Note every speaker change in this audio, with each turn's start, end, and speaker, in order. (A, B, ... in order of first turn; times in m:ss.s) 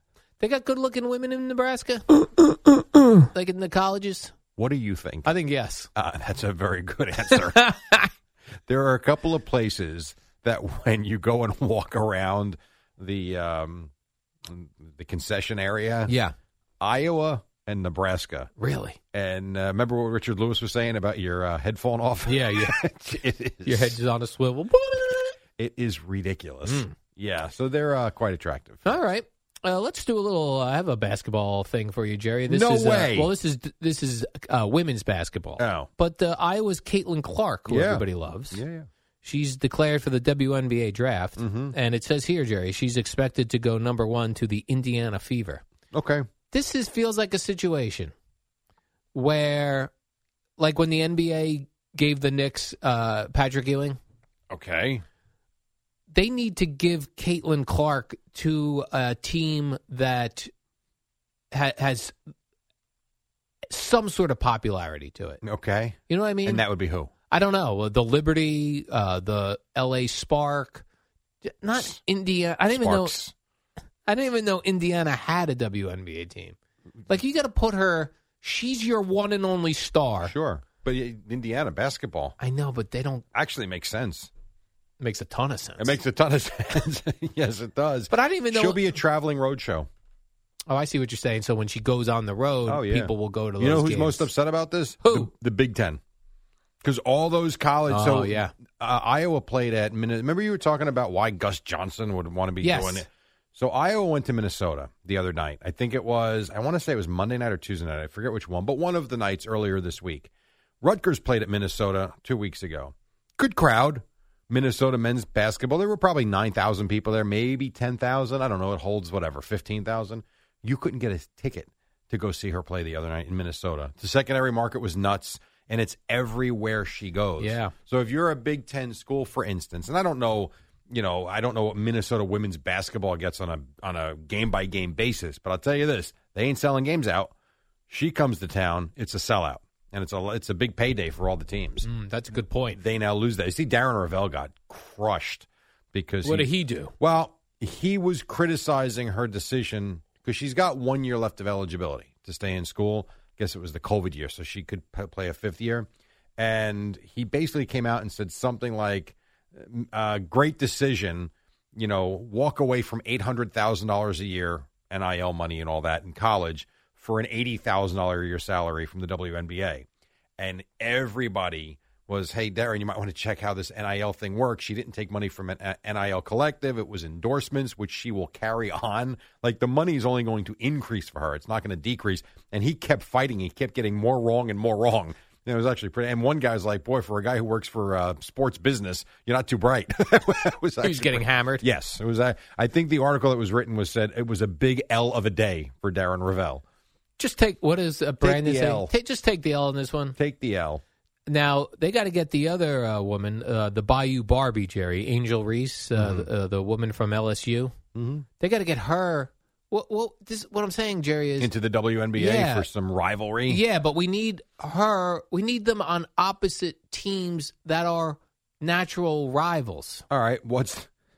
0:00.4-0:04.3 A
0:04.6-0:05.3 B
0:05.2-0:05.9 A
0:05.9-0:07.7 B
0:07.3-0:08.1 A
0:08.7-0:13.9 B
0:14.5-0:16.1 B
0:16.0-0:16.3 A
0:16.8-0:18.5 B
0:18.6-0:19.0 A
0:19.1-0:24.0 B
0:22.2-0:22.8 A
0:23.6-0:25.4 A
0:25.6-0:29.0 B
0:26.6-0:26.9 A
0:28.8-0:38.6 A
0:32.5-0:33.3 B
0:35.6-0:35.9 B
0:37.7-0:38.9 B
0:39.2-0:45.6 A
0:41.4-0:41.8 B
0:45.9-0:46.2 B
0:46.5-0:48.1 A
0:49.1-0:49.9 A
0:50.6-0:54.0 A
0:54.5-0:55.0 B
0:56.1-1:00.5 A
1:01.5-1:02.2 A
1:03.7-1:05.4 A
1:05.4-1:07.1 B
1:06.1-1:06.7 A
1:07.3-1:10.8 A
1:11.4-1:13.2 A
1:12.7-1:13.3 B
1:14.0-1:16.6 A
1:17.1-1:20.3 A
1:20.2-1:22.4 B
1:22.4-1:23.2 A
1:23.3-1:24.3 B
1:25.0-1:26.0 A
1:25.8-1:29.9 B
1:28.1-1:28.9 A
1:30.7-1:34.3 A
1:32.7-1:36.0 B
1:35.0-1:35.3 A
1:36.8-1:50.3 B
1:37.9-1:38.5 A
1:42.6-1:43.0 A
1:50.8-2:17.3 B
2:07.4-2:07.7 A
2:17.9-2:21.9 B
2:21.8-2:22.8 A
2:22.7-2:49.8 B
2:26.2-2:26.9 A
2:50.4-3:16.6 B
3:10.8-3:11.7 A
3:17.2-3:20.2 A
3:18.2-3:18.9 B
3:20.2-3:20.8 B
3:21.3-3:27.7 A
3:26.0-3:26.3 B
3:27.9-3:28.2 B
3:28.4-3:31.5 A
3:31.4-3:33.6 B
3:32.1-3:32.7 A
3:33.5-3:40.0 A
3:40.1-3:40.9 B